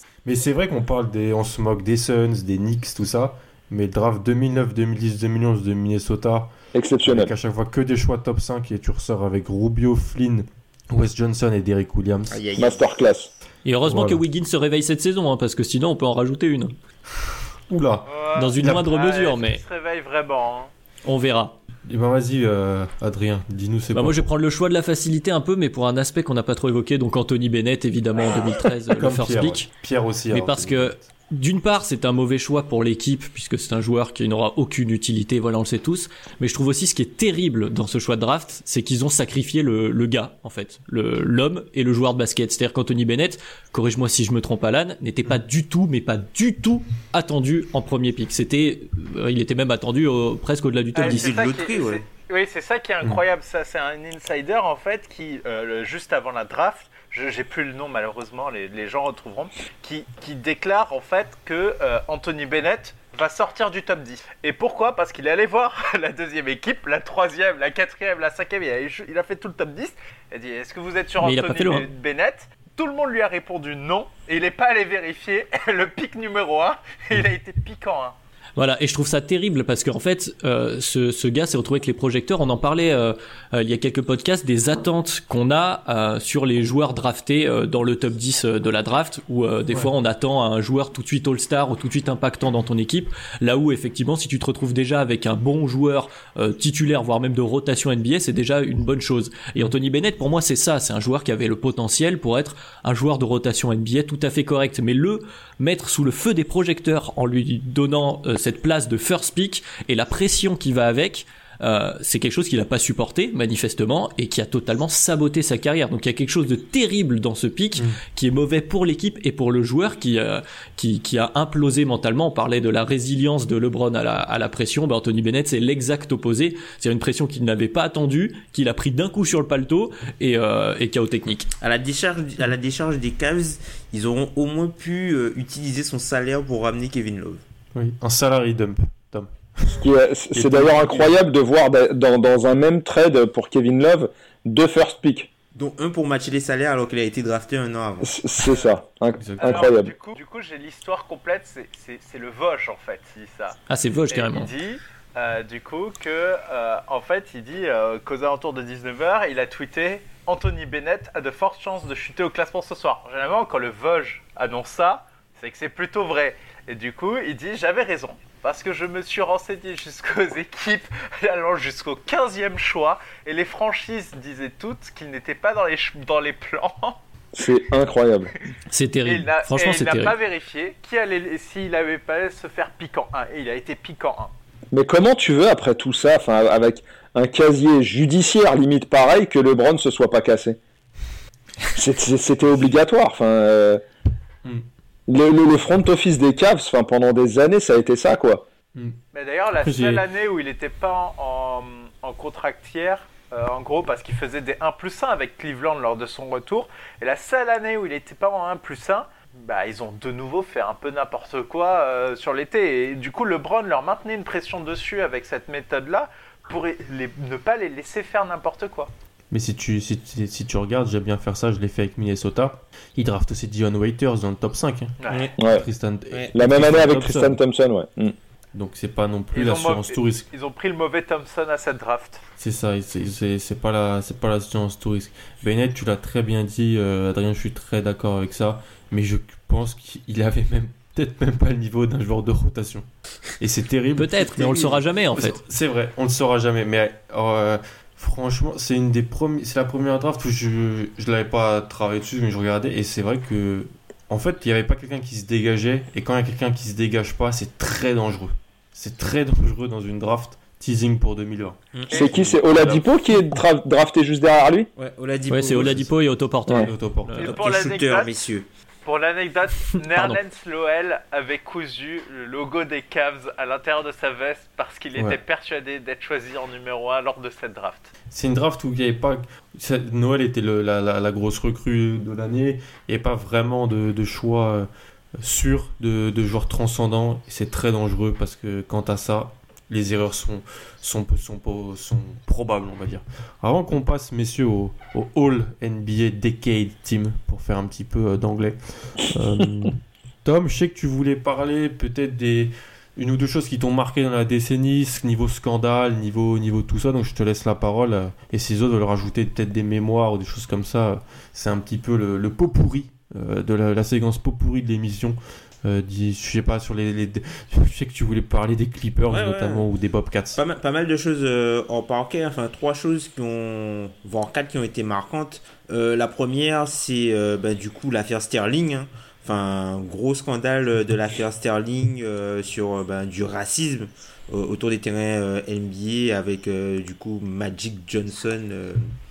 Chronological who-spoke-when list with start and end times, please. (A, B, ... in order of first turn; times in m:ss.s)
0:00.2-0:06.5 A
0:06.7-0:07.3 B
0:07.0-0:12.4 A
0:12.3-0:12.9 C
0:12.6-0:13.3 B
0:13.6-0:16.7 D
0:13.8-0:14.2 A
0:17.7-0:18.1 A
0:18.1-0:20.7 E
0:18.4-0:19.6 D
0:21.0-0:21.6 D
0:21.9-0:24.3 A
0:23.9-0:29.7 D
0:29.0-0:31.1 A
0:30.3-0:51.4 D
0:51.0-1:18.2 E
0:51.0-0:52.1 C
1:11.2-1:11.9 D
1:18.6-2:11.5 D
2:11.6-2:17.4 C
2:17.7-2:21.2 A
2:19.8-2:25.3 B
2:25.6-2:28.1 C
2:28.0-2:29.9 B
2:28.4-2:28.8 E
2:29.2-2:29.7 A
2:29.4-2:33.6 E
2:33.7-2:34.5 D
2:34.1-2:57.0 E
2:57.4-2:58.3 B
2:58.7-3:00.2 D
2:59.0-3:04.3 E
3:04.7-3:10.6 B
3:11.8-3:13.8 B
3:15.1-3:18.5 B
3:19.1-3:38.9 E
3:19.6-3:20.0 A
3:39.3-3:47.4 A
3:45.0-3:45.3 E
3:45.1-3:45.3 C
3:45.4-3:45.7 B
3:46.3-3:48.2 B
3:48.5-3:50.3 A
3:49.3-3:52.2 E
3:52.4-4:02.9 A
4:03.4-4:22.9 A
4:04.0-4:05.4 D
4:21.7-4:22.1 C
4:21.9-4:24.7 B
4:24.8-4:25.8 C
4:25.3-4:27.4 D
4:25.4-4:26.1 A
4:26.6-4:27.2 A
4:27.2-4:28.1 E
4:27.2-4:28.5 C
4:28.8-4:37.9 E
4:29.9-4:30.2 D
4:38.1-5:20.4 A
5:19.1-5:19.7 C
5:20.4-5:38.9 C